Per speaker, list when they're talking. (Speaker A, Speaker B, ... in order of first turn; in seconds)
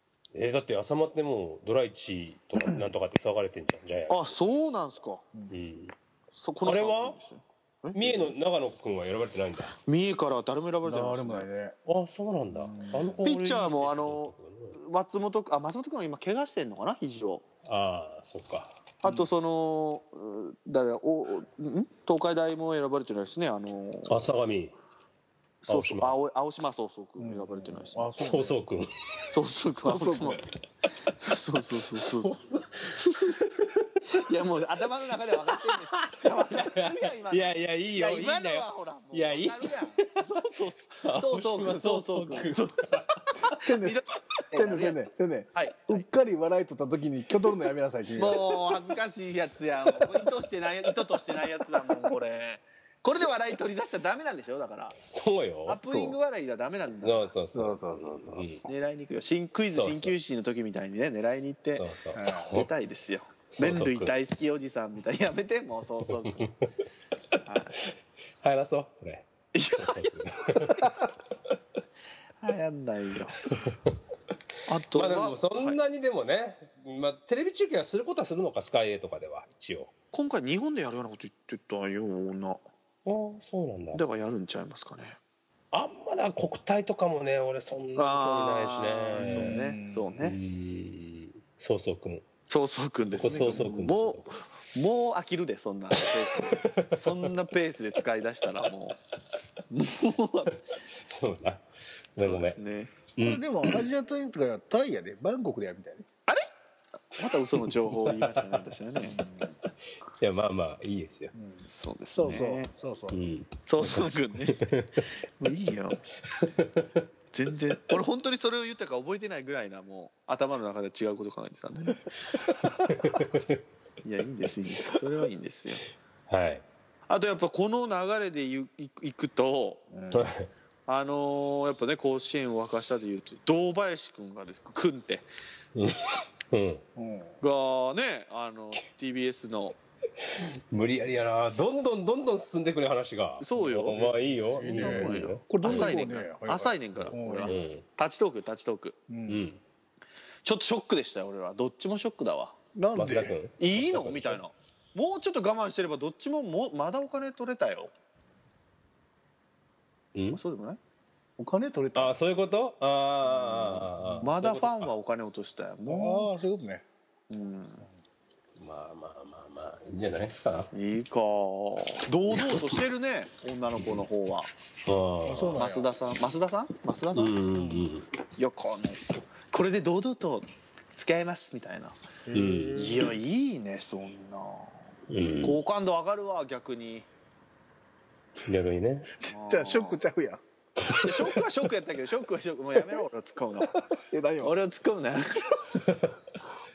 Speaker A: 0.3-4.6, 5.5-5.9, 6.6-7.2, 7.9-9.8, 11.9-14.8, 17.6-18.7, 24.1-24.7, 25.7-26.1, 28.2-28.9, 31.9-33.9, 35.5-40.1, 41.0-43.2, 54.9-55.8, 57.0-58.6, 59.7-60.2, 61.7-62.7, 63.5-64.1, 66.1-66.5, 68.4-71.1, 73.4-73.9, 74.9-79.9, 83.0-84.0, 85.7-89.6, 90.2-92.2, 93.1-94.3, 96.0-97.3, 101.1-102.6, 103.2-103.8, 107.7-108.7, 110.1-111.3, 113.1-115.0, 116.3-117.0, 122.8-123.6, 126.3-126.6, 130.1-130.5, 135.7-136.8, 140.3-146.0, 146.9-147.8, 149.3-149.6, 152.9-154.4, 160.1-160.4, 161.9-164.9, 168.6-170.7, 174.8-175.6, 177.1-178.1, 182.3-183.0, 185.1-185.6, 188.4-189.1
Speaker B: 4.1-5.2, 6.3-8.3, 9.8-11.5, 13.2-17.4, 19.0-24.2, 25.6-28.1, 29.3-30.4, 31.0-33.5, 34.1-45.0, 45.5-46.0, 48.1-55.0, 55.7-57.3, 58.6-61.9, 62.4-66.5, 67.4-67.7, 69.5-70.9, 72.4-73.4, 74.7-75.8, 80.1-82.6, 83.9-85.2, 88.0-90.4, 92.5-99.0, 99.7-100.6, 102.2-102.9, 107.1-109.2, 111.7-112.7, 113.7-114.6, 115.4-116.0, 117.3-122.4, 124.0-125.8, 127.1-129.8, 130.9-135.2, 137.4-139.8, 143.4-144.1, 144.6-149.0, 150.4-152.6, 153.6-157.9, 160.3-160.8, 164.2-166.3, 167.3-167.8, 170.7-174.5, 175.6-177.3, 178.3-182.0, 182.7-184.7, 185.4-187.1, 189.3-190.0, 191.0-193.8, 194.4-195.8
Speaker C: 10.8-11.8, 12.5-13.2, 27.2-28.6, 29.9-30.4, 43.4-48.7, 55.9-56.2, 57.5-58.5, 62.1-62.5, 89.2-90.1, 103.2-106.1, 109.0-109.6, 111.3-113.3, 129.9-130.3, 136.9-137.4, 143.9-147.6, 149.1-149.4, 152.7-153.3, 161.4-162.2, 163.2-164.3, 165.9-166.8, 175.2-175.9, 182.2-183.1, 189.2-190.4, 193.7-194.5